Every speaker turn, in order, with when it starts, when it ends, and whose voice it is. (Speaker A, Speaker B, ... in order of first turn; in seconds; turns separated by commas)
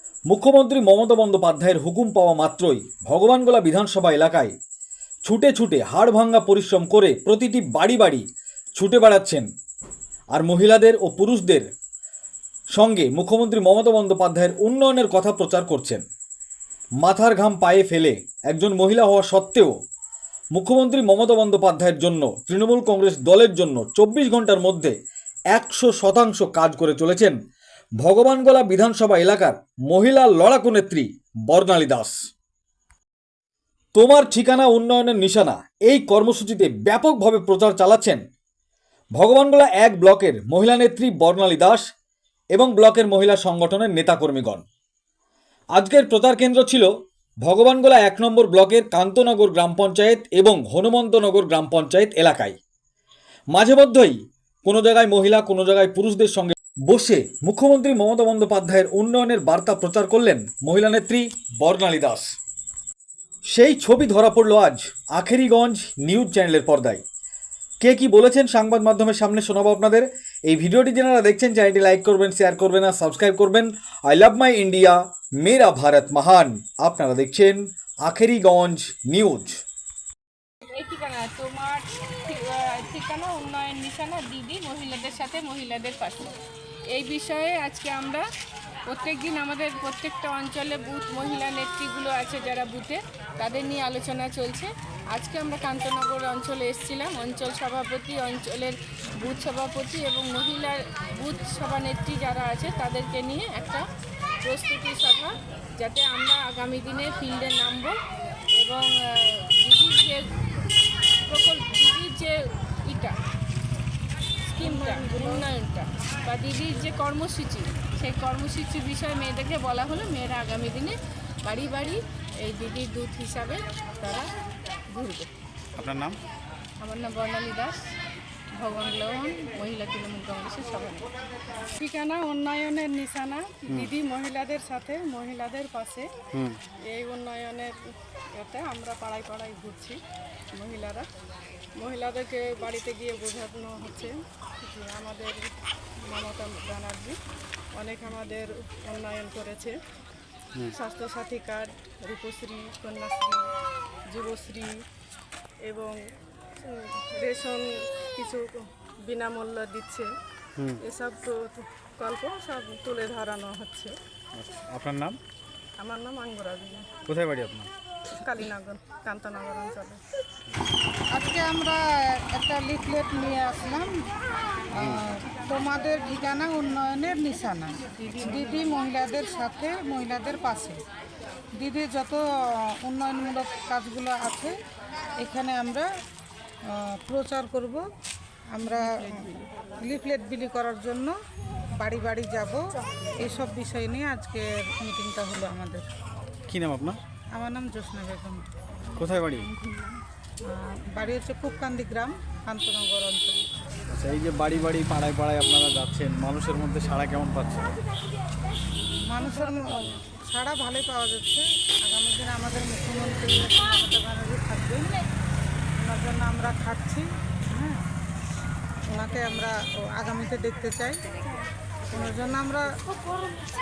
Speaker A: 0.3-4.5, Speaker A: 5.3-9.5, Speaker A: 10.3-11.7, Speaker A: 12.8-16.0, Speaker A: 17.0-19.7, Speaker A: 20.5-25.0, Speaker A: 25.5-27.4, Speaker A: 28.0-32.2, Speaker A: 34.0-38.2, Speaker A: 39.1-41.8, Speaker A: 42.5-44.6, Speaker A: 45.8-46.9, Speaker A: 47.4-52.6, Speaker A: 53.5-62.3, Speaker A: 63.5-67.0, Speaker A: 67.8-79.6, Speaker B: 80.7-86.3, Speaker B: 86.9-88.2, Speaker B: 88.9-103.8, Speaker B: 104.4-107.9, Speaker B: 108.5-110.3, Speaker B: 111.3-113.2, Speaker B: 114.5-124.3, Speaker B: 124.9-125.3, Speaker C: 125.8-126.2, Speaker B: 126.8-127.8, Speaker B: 128.6-131.1, Speaker D: 131.8-136.1, Speaker D: 136.9-137.7, Speaker D: 138.4-140.0, Speaker D: 140.6-141.0, Speaker D: 141.8-144.1, Speaker D: 144.6-145.4, Speaker D: 146.1-147.1, Speaker D: 147.8-149.8, Speaker D: 150.7-153.4, Speaker D: 154.1-154.7, Speaker D: 155.7-156.0, Speaker D: 156.7-157.7, Speaker D: 158.2-160.1, Speaker D: 160.8-163.9, Speaker C: 164.4-165.2, Speaker D: 165.8-166.8, Speaker C: 167.1-167.7, Speaker D: 168.2-170.0, Speaker E: 171.1-173.9, Speaker E: 174.8-180.8, Speaker E: 181.6-182.2, Speaker E: 182.8-184.5, Speaker E: 185.2-185.9, Speaker E: 186.7-187.8, Speaker E: 188.5-191.1, Speaker E: 191.8-192.6, Speaker E: 193.2-195.8, Speaker C: 196.5-197.0, Speaker E: 197.3-198.4, Speaker C: 199.0-199.5, Speaker E: 200.5-203.4, Speaker C: 203.9-207.7, Speaker E: 209.1-215.0, Speaker E: 215.8-217.8, Speaker E: 218.9-221.0, Speaker E: 221.9-222.7